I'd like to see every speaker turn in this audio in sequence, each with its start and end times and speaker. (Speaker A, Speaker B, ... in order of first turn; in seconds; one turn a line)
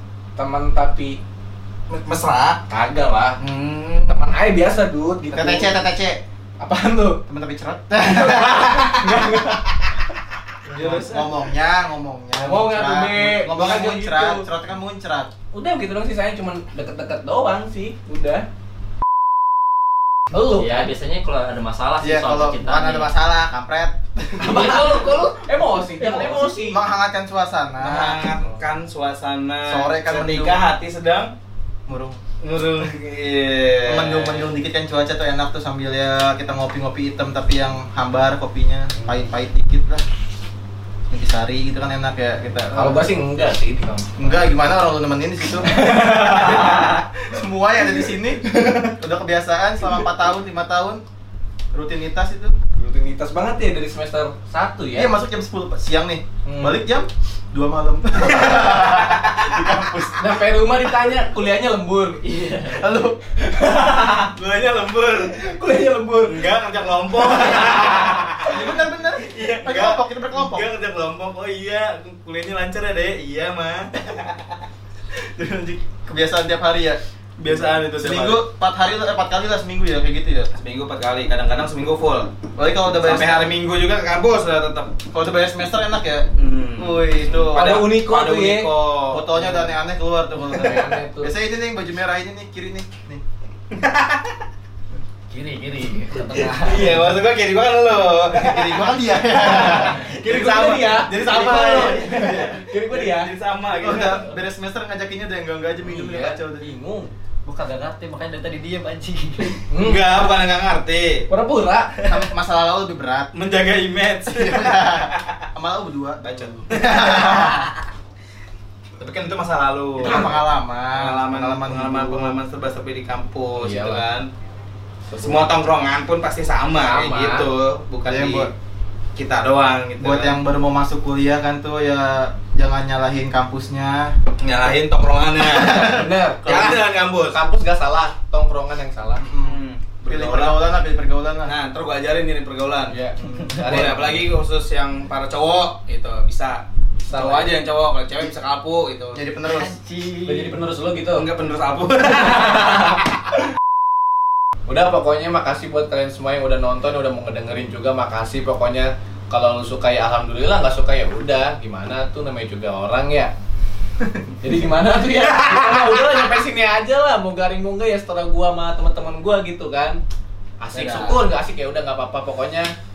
Speaker A: 0.4-1.2
Speaker B: 1.9-2.6
Speaker A: 2.7-3.4
Speaker B: 3.4-4.3
Speaker A: 4.1-5.7
Speaker C: 5.3-6.2
Speaker A: 6.6-7.2
Speaker C: 7.3-9.6
Speaker A: 8.1-9.7
Speaker B: 10.7-11.3
Speaker A: 10.8-11.1
Speaker C: 10.8-15.3
Speaker A: 12.4-14.4
Speaker A: 15.5-18.5
Speaker A: 20.3-20.9
Speaker D: 20.6-23.1
Speaker C: 22.0-25.2
Speaker D: 24.4-25.3
Speaker A: 24.4-26.8
Speaker D: 26.0-26.4
Speaker C: 26.6-28.6
Speaker B: 27.8-31.3
Speaker C: 29.6-30.6
Speaker C: 31.9-32.2
Speaker B: 32.4-34.5
Speaker C: 33.9-40.0
Speaker A: 39.0-39.2
Speaker C: 41.1-43.1
Speaker A: 42.7-44.4
Speaker C: 44.2-48.4
Speaker A: 45.6-47.0
Speaker C: 49.0-51.0
Speaker C: 51.7-52.5
Speaker A: 52.8-55.1
Speaker C: 54.9-60.4
Speaker A: 56.5-56.8
Speaker B: 58.3-59.5
Speaker A: 60.2-62.2
Speaker C: 62.7-63.2
Speaker A: 63.3-64.3
Speaker B: 64.3-65.5
Speaker A: 65.3-66.5
Speaker B: 66.2-68.6
Speaker C: 68.5-70.7
Speaker B: 69.2-74.4
Speaker C: 75.2-80.5
Speaker B: 77.4-78.4
Speaker B: 80.5-82.3
Speaker C: 82.5-83.5
Speaker B: 83.0-85.0
Speaker C: 85.1-87.8
Speaker B: 86.4-89.2
Speaker A: 87.5-88.7
Speaker C: 89.1-93.2
Speaker A: 90.4-91.3
Speaker B: 93.7-94.4
Speaker E: 95.3-97.0
Speaker B: 96.4-104.3
Speaker C: 98.3-100.1
Speaker A: 100.2-103.3
Speaker C: 101.3-102.6
Speaker C: 103.7-106.7
Speaker A: 105.8-107.1
Speaker E: 107.5-109.6
Speaker A: 109.7-110.1
Speaker B: 109.8-111.3
Speaker A: 111.3-112.0
Speaker C: 112.1-113.3
Speaker B: 113.3-115.4
Speaker C: 114.3-117.7
Speaker B: 116.2-117.5
Speaker B: 119.0-120.4
Speaker C: 120.0-122.4
Speaker A: 120.0-120.3
Speaker B: 120.9-124.3
Speaker A: 123.6-124.0
Speaker A: 125.1-125.5
Speaker B: 125.2-128.5
Speaker A: 126.8-127.5
Speaker C: 128.1-128.5
Speaker B: 129.2-130.4
Speaker C: 130.0-134.2
Speaker B: 134.4-137.4
Speaker C: 135.5-135.8
Speaker A: 135.8-139.3
Speaker C: 139.2-141.5
Speaker B: 139.4-140.6
Speaker B: 141.5-143.0
Speaker A: 142.9-144.3
Speaker C: 143.2-143.8
Speaker B: 143.5-149.2
Speaker A: 147.1-147.6
Speaker C: 149.1-149.7
Speaker E: 149.5-150.5
Speaker A: 150.2-151.3
Speaker B: 151.1-153.0
Speaker A: 152.3-152.8
Speaker A: 154.7-163.3
Speaker A: 164.4-170.0
Speaker B: 165.1-166.2
Speaker A: 170.6-172.7
Speaker E: 170.7-171.2
Speaker B: 170.8-171.1